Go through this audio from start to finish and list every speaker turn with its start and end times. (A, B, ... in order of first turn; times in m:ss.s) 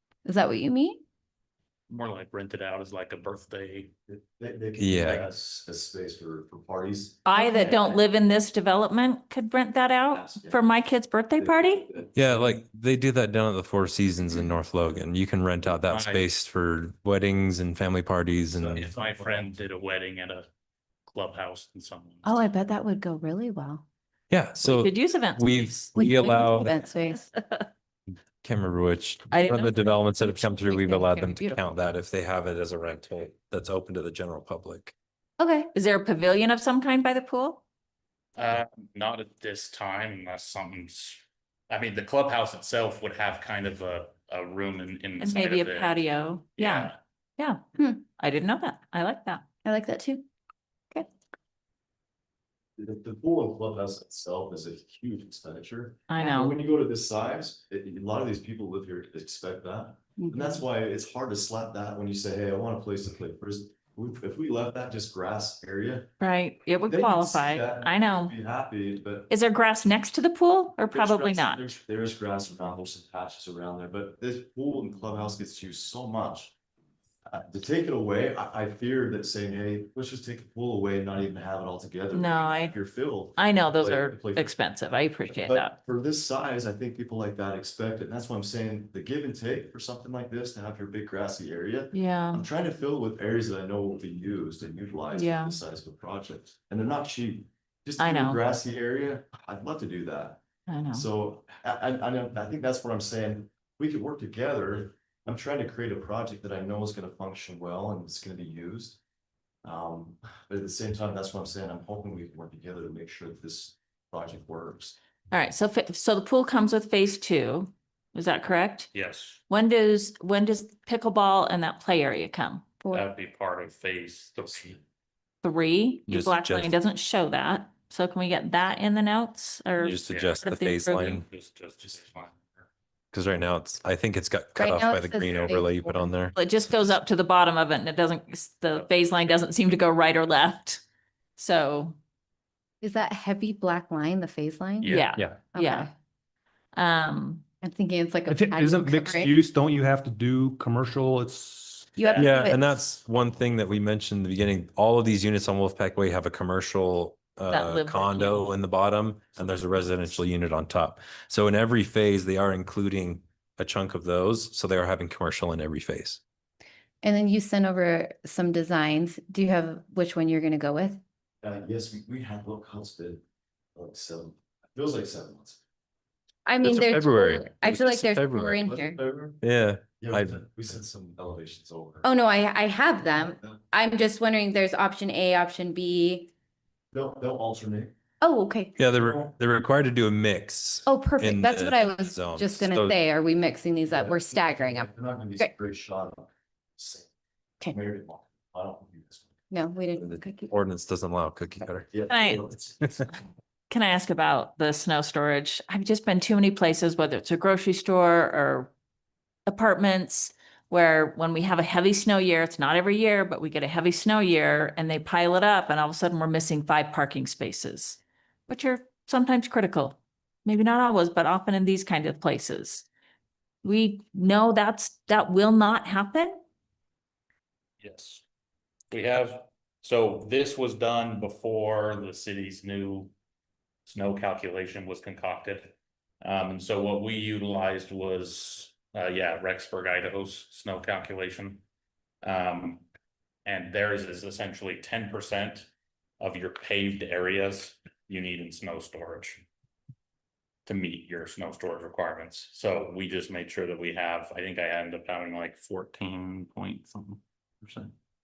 0:00.2-0:01.0 A
0:01.9-0:03.9 B
0:04.1-0:07.7 C
0:04.8-0:05.2 D
0:07.2-0:11.9 E
0:07.3-0:08.0 A
0:10.1-0:10.7 C
0:11.4-0:12.5 C
0:12.1-0:18.8 D
0:15.7-0:16.3 B
0:18.5-0:19.5 C
0:18.7-0:20.5 B
0:21.1-0:22.5 B
0:22.2-0:23.8 A
0:24.3-0:26.7 D
0:24.6-0:26.0 E
0:25.9-0:27.3 A
0:27.3-0:27.6 E
0:28.4-0:34.9 D
0:29.3-0:29.9 E
0:30.1-0:31.6 A
0:35.4-0:35.7 A
0:35.7-0:37.6 E
0:38.4-0:46.0 B
0:45.2-0:49.4 E
0:46.6-0:47.0 B
0:49.6-0:50.2 A
0:52.8-1:06.1 C
0:56.1-0:56.6 E
1:00.2-1:00.6 A
1:06.2-1:08.3 E
1:06.8-1:09.3 C
1:09.3-1:11.7 E
1:10.9-1:16.5 C
1:17.2-1:24.5 C
1:22.1-1:25.8 E
1:25.3-1:49.0 C
1:31.9-1:32.4 E
1:35.1-1:35.6 E
1:38.0-1:38.4 E
1:40.7-1:41.0 E
1:49.6-1:55.0 C
1:55.3-1:58.9 E
1:58.9-1:59.4 B
1:59.5-2:02.8 E
2:02.9-2:04.8 B
2:05.4-2:11.1 E
2:06.1-2:06.7 D
2:09.8-2:11.2 D
2:10.0-2:12.4 B
2:13.1-2:16.4 D
2:14.6-2:16.1 A
2:16.3-2:20.8 E
2:21.4-2:22.0 E
2:22.8-2:25.9 A
2:24.8-2:25.2 B
2:24.9-2:25.9 E
2:26.7-2:27.4 E
2:27.6-2:29.4 A
2:28.2-2:31.9 F
2:32.0-2:32.7 A
2:32.0-2:32.5 B
2:32.1-2:46.2 D
2:37.5-2:38.5 E
2:47.0-2:51.0 A
2:51.4-2:53.2 C
2:53.7-2:55.6 C
2:56.4-2:59.0 A
2:56.6-2:58.7 D
2:58.6-2:59.4 C
2:59.4-3:00.4 D
3:00.0-3:02.1 C
3:02.0-3:06.3 A
3:03.3-3:03.6 C
3:06.9-3:07.9 C
3:08.2-3:08.8 A
3:08.8-3:12.9 D
3:08.9-3:09.3 C
3:10.9-3:14.9 A
3:13.8-3:17.1 C
3:17.7-3:19.3 C
3:19.5-3:20.5 A
3:20.0-3:21.9 D
3:21.9-3:23.1 C
3:22.1-3:22.4 E
3:23.7-3:28.7 E
3:29.5-3:42.8 E
3:43.6-3:46.4 E
3:47.8-3:48.2 B
3:48.9-3:53.1 B
3:53.9-4:01.6 B
4:02.2-4:02.8 B
4:03.4-4:09.4 B
4:10.6-4:17.9 B